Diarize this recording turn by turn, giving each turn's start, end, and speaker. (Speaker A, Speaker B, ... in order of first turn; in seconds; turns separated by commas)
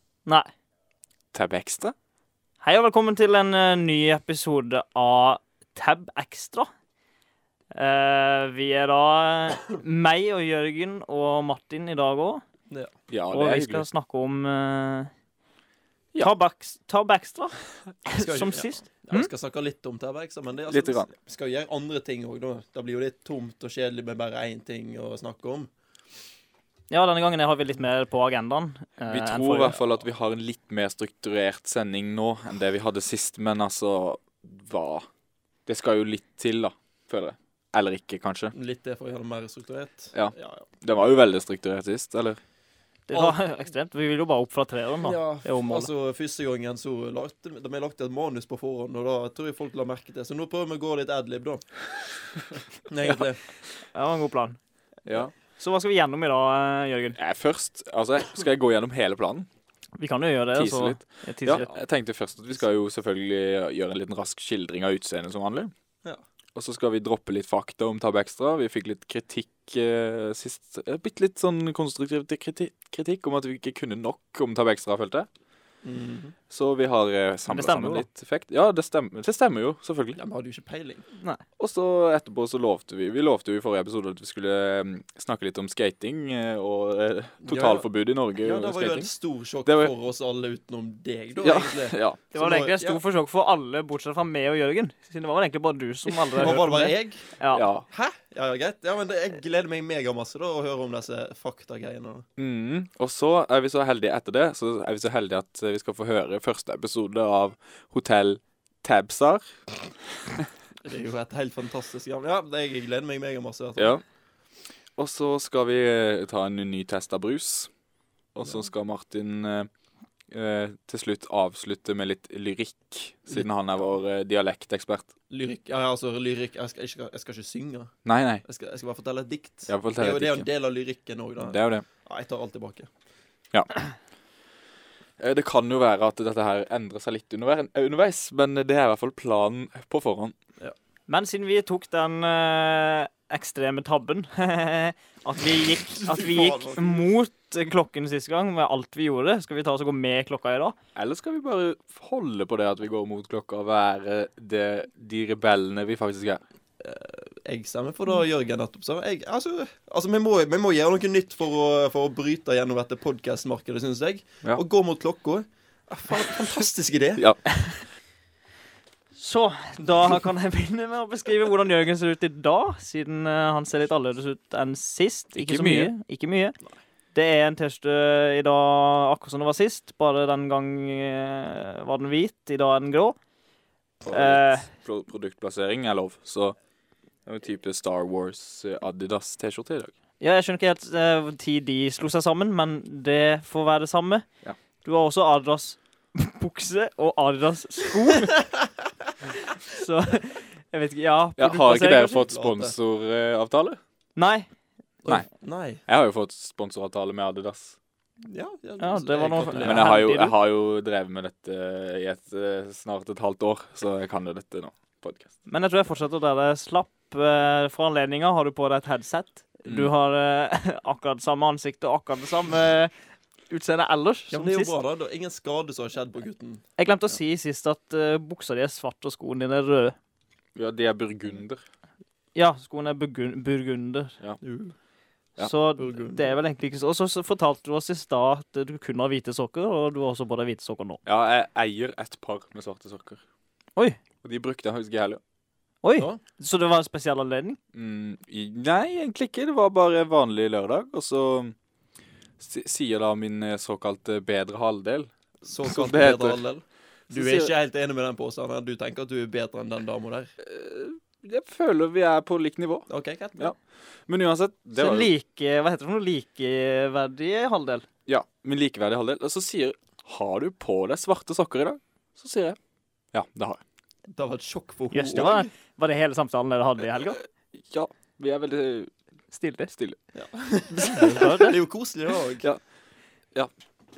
Speaker A: 1.3-1.9, Speaker B: 2.6-6.7, Speaker B: 7.7-12.4, Speaker A: 13.1-13.8, Speaker B: 13.3-15.1, Speaker B: 16.2-19.3, Speaker C: 18.1-25.7, Speaker A: 20.7-21.1, Speaker B: 26.9-29.8, Speaker A: 29.1-35.0, Speaker A: 35.7-38.5, Speaker C: 38.5-40.6, Speaker A: 40.1-42.4, Speaker B: 43.1-45.9, Speaker C: 45.0-51.6, Speaker C: 52.9-53.4, Speaker B: 53.9-54.6, Speaker A: 55.0-55.3, Speaker B: 55.6-57.2, Speaker A: 57.2-59.5, Speaker B: 60.0-61.6, Speaker A: 60.5-65.7, Speaker C: 61.5-61.8, Speaker A: 66.5-75.3, Speaker C: 75.8-76.3, Speaker A: 76.5-80.2, Speaker B: 77.5-78.0, Speaker C: 80.2-81.0, Speaker A: 81.6-89.1, Speaker C: 87.5-87.9, Speaker C: 88.4-93.0, Speaker A: 89.6-89.9, Speaker A: 91.4-92.2, Speaker B: 92.3-97.6, Speaker C: 96.4-97.3, Speaker A: 97.5-97.8, Speaker C: 97.9-102.2, Speaker A: 102.4-109.5, Speaker C: 110.8-113.9, Speaker A: 113.8-114.0, Speaker A: 115.0-117.7, Speaker A: 118.3-119.7, Speaker A: 120.3-125.1, Speaker C: 123.3-123.9, Speaker C: 125.3-127.9, Speaker A: 128.0-128.4, Speaker C: 128.4-132.9, Speaker A: 129.7-130.5, Speaker A: 131.4-131.8, Speaker A: 135.2-140.3, Speaker B: 141.1-150.8, Speaker C: 146.0-147.1, Speaker A: 150.9-156.4, Speaker C: 156.8-167.2, Speaker B: 169.2-176.6, Speaker A: 175.3-175.9, Speaker B: 177.1-183.2, Speaker A: 184.1-186.5, Speaker B: 184.1-184.7, Speaker A: 187.2-189.9, Speaker B: 190.2-194.2, Speaker B: 194.8-198.4, Speaker B: 199.6-202.2, Speaker A: 201.4-203.8, Speaker C: 201.7-202.7, Speaker B: 204.2-204.5, Speaker C: 205.0-205.8, Speaker A: 205.8-207.8, Speaker C: 208.2-209.9, Speaker B: 208.8-210.3, Speaker A: 209.6-215.3, Speaker B: 215.5-222.9, Speaker B: 223.5-224.7, Speaker C: 224.3-226.6, Speaker B: 226.8-229.9, Speaker A: 230.6-231.6, Speaker B: 232.3-234.1, Speaker C: 234.4-234.7, Speaker B: 235.4-241.0, Speaker C: 235.8-236.3, Speaker A: 241.0-243.2, Speaker A: 244.2-245.2, Speaker B: 245.8-247.6, Speaker A: 247.7-251.5, Speaker A: 252.4-256.4, Speaker C: 255.4-260.3, Speaker A: 257.1-257.5, Speaker A: 260.4-263.6, Speaker C: 262.9-263.5, Speaker A: 264.1-265.1, Speaker B: 264.8-267.9, Speaker A: 268.1-272.6, Speaker A: 273.1-273.6, Speaker C: 274.1-275.5, Speaker B: 274.9-277.2, Speaker A: 277.6-278.9, Speaker B: 279.3-279.7, Speaker C: 280.1-282.4, Speaker B: 280.8-281.6